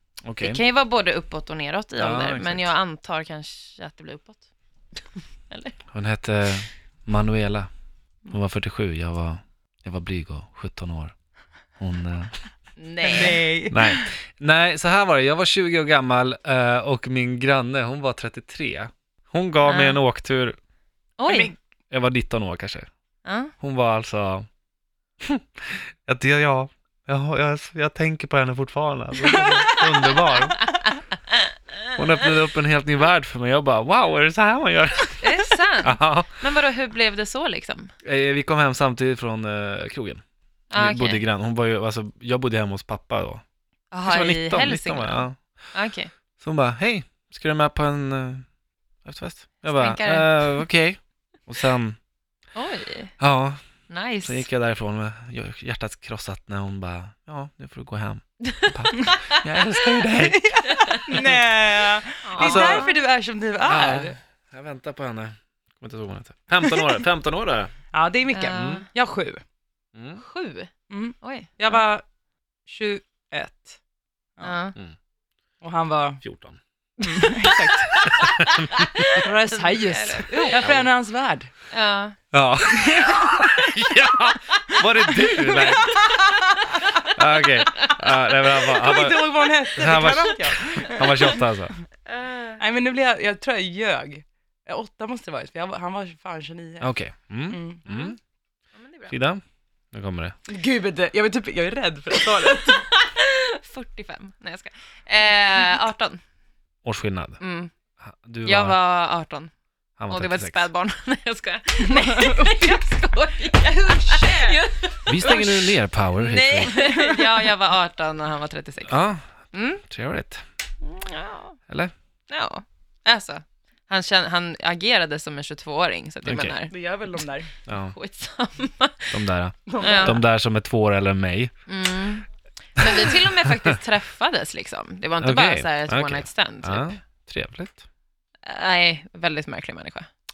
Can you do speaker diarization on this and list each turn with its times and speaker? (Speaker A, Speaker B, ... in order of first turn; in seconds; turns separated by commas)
Speaker A: 0.2-0.6, Speaker B: 0.4-4.5, Speaker A: 2.0-2.7, Speaker B: 5.5-5.8, Speaker A: 5.9-7.7, Speaker A: 8.3-11.1, Speaker A: 11.8-12.3, Speaker B: 12.8-13.4, Speaker C: 13.0-14.1, Speaker A: 13.7-20.6, Speaker B: 19.6-20.0, Speaker B: 21.2-21.5, Speaker C: 21.3-21.5, Speaker A: 21.9-22.9, Speaker B: 23.2-23.5, Speaker A: 23.6-24.5, Speaker A: 25.2-30.7, Speaker C: 29.3-30.1, Speaker B: 30.6-31.4, Speaker A: 32.0-36.4, Speaker B: 35.2-37.9, Speaker A: 38.0-40.2, Speaker B: 40.7-41.2, Speaker A: 40.8-43.4, Speaker B: 43.9-46.1, Speaker A: 44.0-45.4, Speaker A: 46.4-48.5, Speaker A: 49.0-52.0, Speaker B: 49.6-50.6, Speaker B: 52.5-53.1, Speaker A: 53.2-53.6, Speaker B: 53.9-54.5, Speaker A: 54.2-60.5, Speaker B: 58.5-59.3, Speaker C: 60.0-64.2, Speaker A: 61.1-61.4, Speaker B: 62.2-62.9, Speaker A: 62.4-62.9, Speaker A: 63.6-67.7, Speaker C: 67.9-69.4, Speaker B: 68.3-68.9, Speaker A: 68.5-68.8, Speaker A: 70.0-70.2, Speaker B: 70.2-71.8, Speaker C: 70.9-72.0, Speaker C: 72.7-73.8, Speaker B: 74.4-74.8, Speaker C: 75.6-76.2, Speaker A: 76.2-76.6, Speaker C: 77.0-78.0, Speaker B: 77.1-80.7, Speaker A: 78.2-78.7, Speaker C: 79.2-81.5, Speaker B: 81.7-82.2, Speaker A: 82.3-86.0, Speaker C: 82.9-83.3, Speaker C: 85.3-86.6, Speaker B: 86.6-87.1, Speaker A: 87.1-91.8, Speaker C: 88.5-91.4, Speaker B: 92.1-92.6, Speaker C: 92.6-96.9, Speaker A: 96.8-98.2, Speaker C: 97.5-97.8, Speaker B: 97.9-98.2, Speaker B: 98.7-99.2, Speaker A: 99.1-100.3, Speaker C: 100.5-102.9, Speaker B: 102.6-106.2, Speaker A: 106.8-107.4, Speaker B: 107.4-107.7, Speaker A: 108.0-108.8, Speaker B: 108.5-109.5, Speaker A: 110.0-110.7, Speaker B: 110.1-119.0, Speaker C: 111.9-112.5, Speaker C: 113.9-114.6, Speaker A: 115.1-116.7, Speaker C: 116.7-117.4, Speaker A: 118.9-120.4, Speaker B: 119.5-119.8, Speaker B: 120.8-121.6, Speaker B: 122.3-126.8, Speaker A: 126.2-126.6, Speaker C: 126.7-127.5, Speaker A: 127.7-128.0, Speaker B: 127.7-129.1, Speaker A: 129.1-131.5, Speaker C: 129.7-130.2, Speaker B: 129.8-130.2, Speaker B: 131.7-137.0, Speaker A: 135.2-137.8, Speaker B: 138.4-140.1